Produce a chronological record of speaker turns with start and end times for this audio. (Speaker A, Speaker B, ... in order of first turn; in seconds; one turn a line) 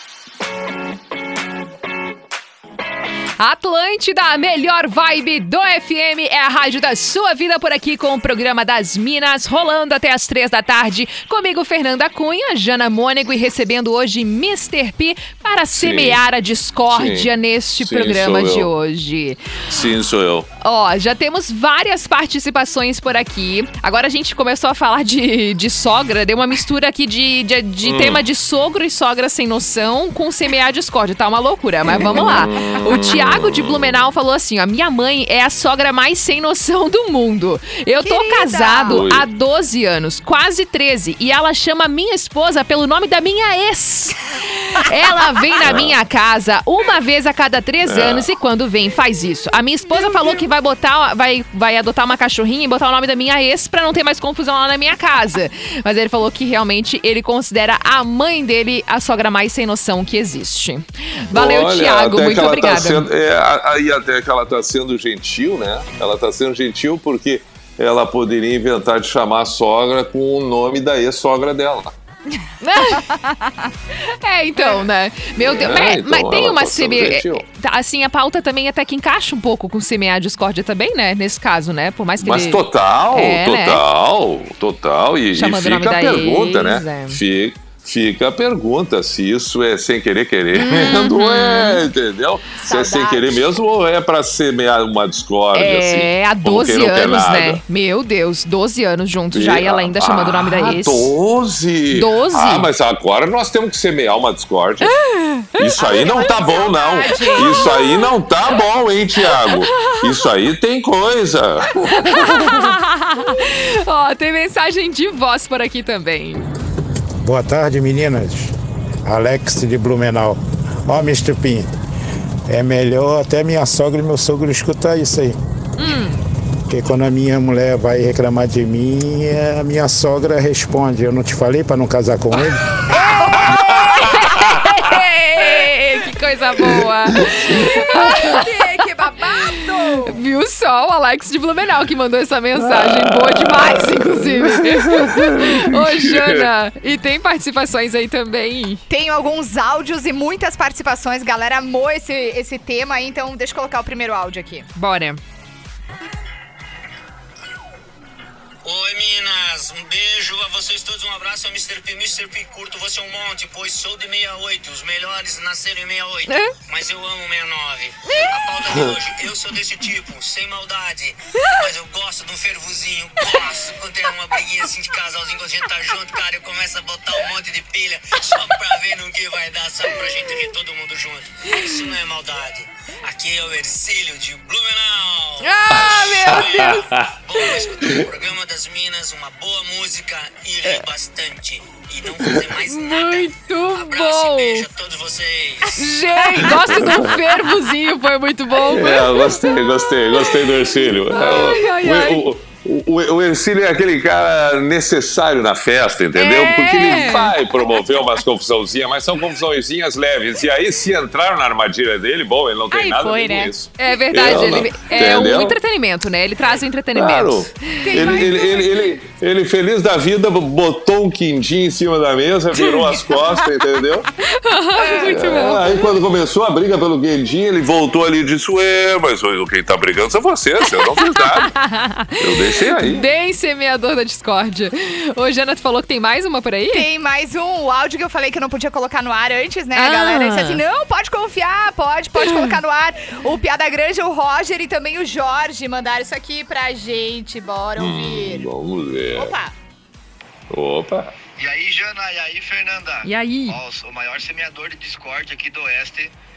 Speaker A: 3.4-19.6
Speaker B: 15.7-16.2
Speaker B: 16.9-17.3
Speaker B: 17.8-18.7
Speaker B: 19.7-20.5
Speaker A: 20.6-63.0
Speaker B: 27.8-28.2
Speaker B: 31.8-34.0
Speaker C: 38.0-39.0
Speaker B: 38.9-39.2
Speaker B: 45.6-46.0
Speaker B: 47.8-48.3
Speaker C: 49.9-50.4
Speaker B: 61.3-71.9
Speaker A: 72.6-73.0
Speaker C: 72.9-73.7
Speaker A: 74.2-83.8
Speaker B: 75.3-77.4
Speaker B: 82.2-97.6
Speaker A: 85.3-87.2
Speaker A: 90.5-91.8
Speaker C: 92.6-93.5
Speaker A: 95.5-101.1
Speaker B: 99.3-104.9
Speaker A: 101.9-102.7
Speaker A: 104.9-105.5
Speaker B: 105.5-112.7
Speaker C: 105.7-107.7
Speaker A: 107.2-108.0
Speaker A: 109.4-110.0
Speaker A: 112.0-116.5
Speaker D: 117.2-118.5
Speaker D: 119.0-121.7
Speaker D: 122.5-125.3
Speaker A: 125.8-126.2
Speaker D: 126.7-132.6
Speaker A: 132.9-138.4
Speaker C: 133.2-134.1
Speaker B: 133.4-133.9
Speaker B: 136.6-136.8
Speaker B: 137.4-138.4
Speaker C: 137.4-140.2
Speaker A: 140.0-148.8
Speaker B: 142.6-146.5
Speaker C: 148.9-154.7
Speaker A: 154.7-155.2
Speaker E: 158.6-185.4
Speaker A: 166.3-166.5
Speaker A: 185.4-186.8
Speaker B: 185.7-187.1
Speaker E: 186.3-195.7
Speaker A: 192.6-194.7
Speaker A: 195.8-199.6
Speaker B: 196.4-197.1
Speaker B: 198.6-215.6
Speaker A: 201.1-202.3
Speaker A: 206.1-207.3
Speaker C: 212.7-213.5
Speaker A: 213.8-218.3
Speaker B: 216.9-224.1
Speaker C: 217.8-218.7
Speaker A: 224.3-225.6
Speaker B: 224.8-231.5
Speaker A: 230.9-236.9
Speaker B: 232.2-233.1
Speaker C: 236.7-248.4
Speaker A: 239.8-240.6
Speaker B: 247.8-249.3
Speaker C: 249.2-249.5
Speaker B: 250.5-251.1
Speaker F: 251.4-256.1
Speaker A: 253.0-253.6